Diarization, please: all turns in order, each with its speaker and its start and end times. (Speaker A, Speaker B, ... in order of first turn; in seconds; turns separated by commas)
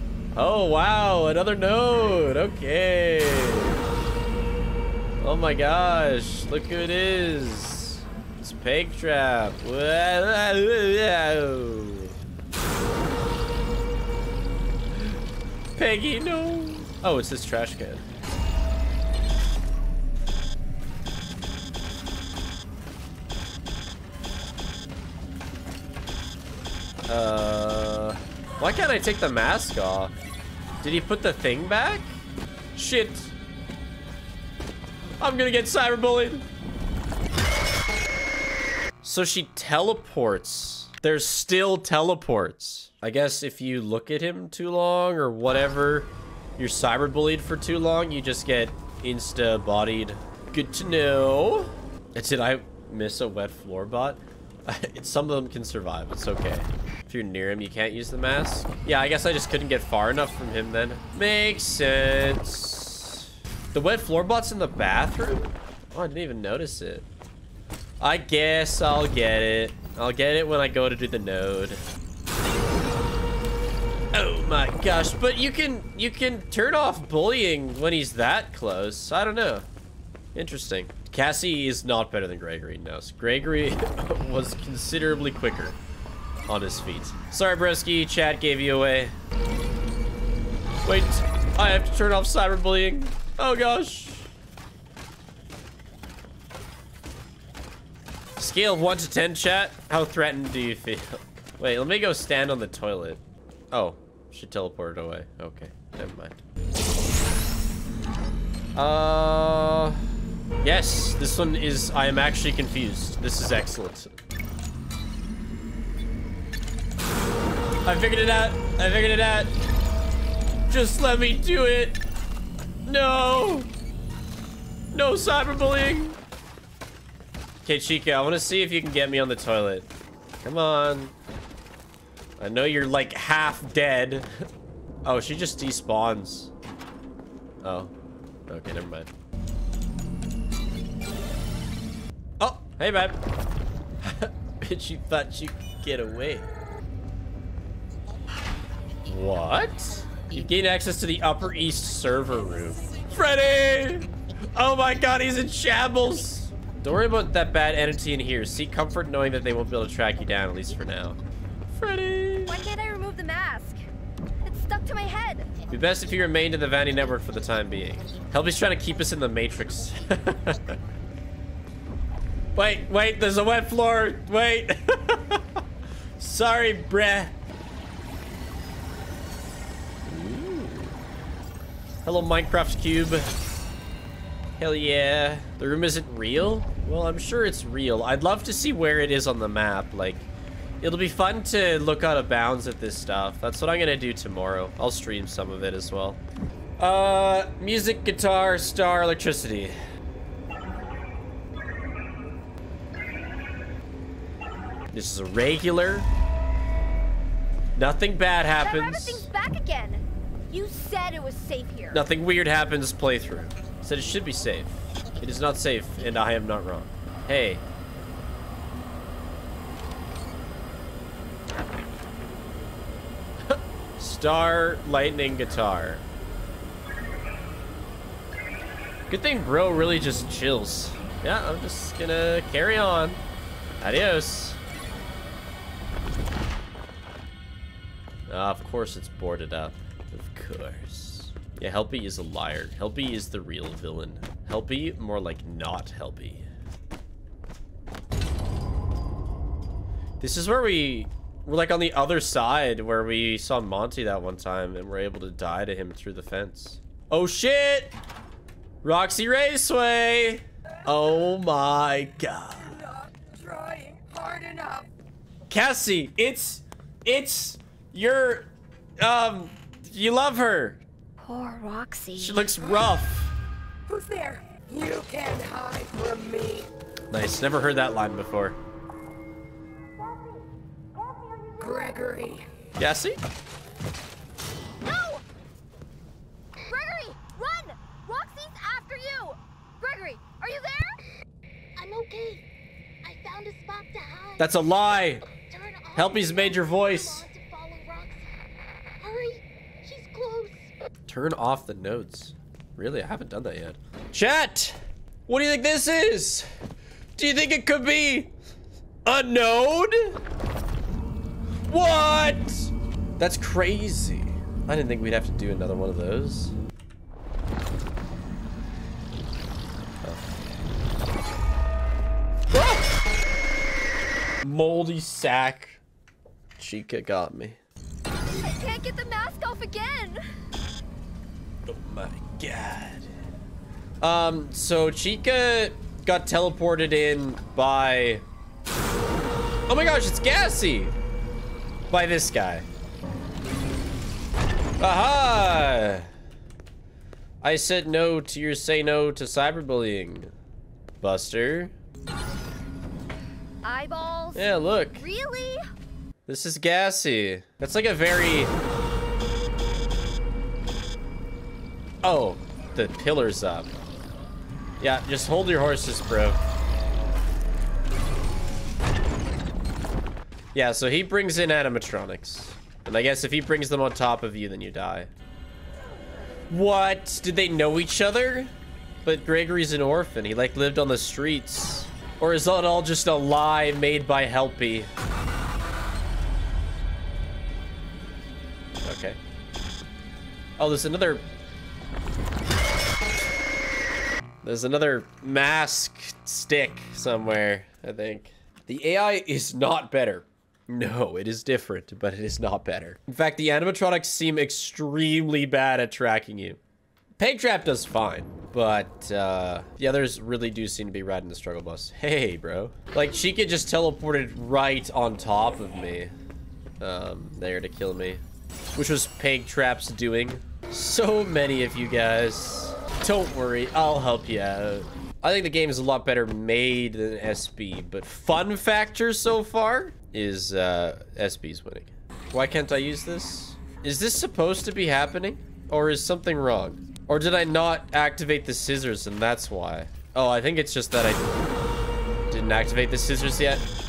Speaker A: 0.3-3.8, Speaker A: 5.2-12.1, Speaker A: 15.8-18.1, Speaker A: 27.1-30.1, Speaker A: 30.8-32.1, Speaker A: 32.7-33.3, Speaker A: 35.2-36.4, Speaker A: 39.0-67.1, Speaker A: 68.0-71.8, Speaker A: 74.1-79.7, Speaker A: 80.3-85.8, Speaker A: 86.5-89.1, Speaker A: 90.8-94.3, Speaker A: 98.4-106.4, Speaker A: 108.7-110.0, Speaker A: 110.6-114.1, Speaker A: 117.8-119.5, Speaker A: 120.7-122.0, Speaker A: 122.8-123.7, Speaker A: 124.9-126.2, Speaker A: 127.6-129.9, Speaker A: 130.4-131.1, Speaker A: 132.4-134.3, Speaker A: 135.0-136.5, Speaker A: 137.6-137.9, Speaker A: 138.5-139.1, Speaker A: 142.4-143.2, Speaker A: 144.0-146.5, Speaker A: 149.1-162.6, Speaker B: 162.4-163.8, Speaker B: 164.4-165.5, Speaker A: 165.7-170.8, Speaker A: 172.5-175.4, Speaker A: 176.2-177.3, Speaker A: 180.0-180.9, Speaker A: 182.0-183.3, Speaker A: 184.6-190.3, Speaker A: 190.8-196.2, Speaker A: 196.8-199.8, Speaker A: 204.9-206.1, Speaker A: 207.7-209.2, Speaker B: 208.6-212.0, Speaker A: 211.9-217.6, Speaker A: 223.5-226.0, Speaker A: 229.1-233.2, Speaker A: 233.8-234.6, Speaker A: 238.3-246.4, Speaker A: 250.2-257.9, Speaker A: 258.8-262.7, Speaker C: 262.9-264.9, Speaker A: 265.5-270.8, Speaker B: 271.2-272.5, Speaker A: 272.1-273.3, Speaker C: 273.9-276.7, Speaker A: 277.1-278.6, Speaker C: 281.6-282.5, Speaker A: 282.8-283.2, Speaker B: 284.8-285.2, Speaker B: 286.6-291.0, Speaker D: 291.8-292.4, Speaker D: 293.0-294.6, Speaker A: 294.4-295.2, Speaker D: 295.3-298.3, Speaker A: 295.9-297.2, Speaker D: 299.0-300.7, Speaker A: 301.1-306.5, Speaker A: 307.2-308.3, Speaker A: 309.0-310.2, Speaker A: 311.7-316.5, Speaker A: 320.0-320.3, Speaker A: 322.5-322.9, Speaker A: 324.4-325.8, Speaker A: 326.6-327.6, Speaker B: 328.4-330.2, Speaker A: 331.7-333.1, Speaker A: 334.0-338.2, Speaker A: 339.7-340.9, Speaker A: 341.9-342.7, Speaker A: 344.8-346.1, Speaker A: 347.4-350.3, Speaker A: 351.0-351.7, Speaker B: 353.6-355.6, Speaker A: 354.3-355.0, Speaker A: 356.3-358.5, Speaker A: 362.0-363.7, Speaker A: 364.8-366.4, Speaker A: 370.5-375.1, Speaker A: 376.5-378.5, Speaker A: 379.0-384.9, Speaker A: 388.8-389.2, Speaker A: 390.6-391.3, Speaker A: 394.4-406.6, Speaker A: 407.2-416.1, Speaker A: 416.8-418.2, Speaker A: 418.7-441.3, Speaker A: 442.3-443.7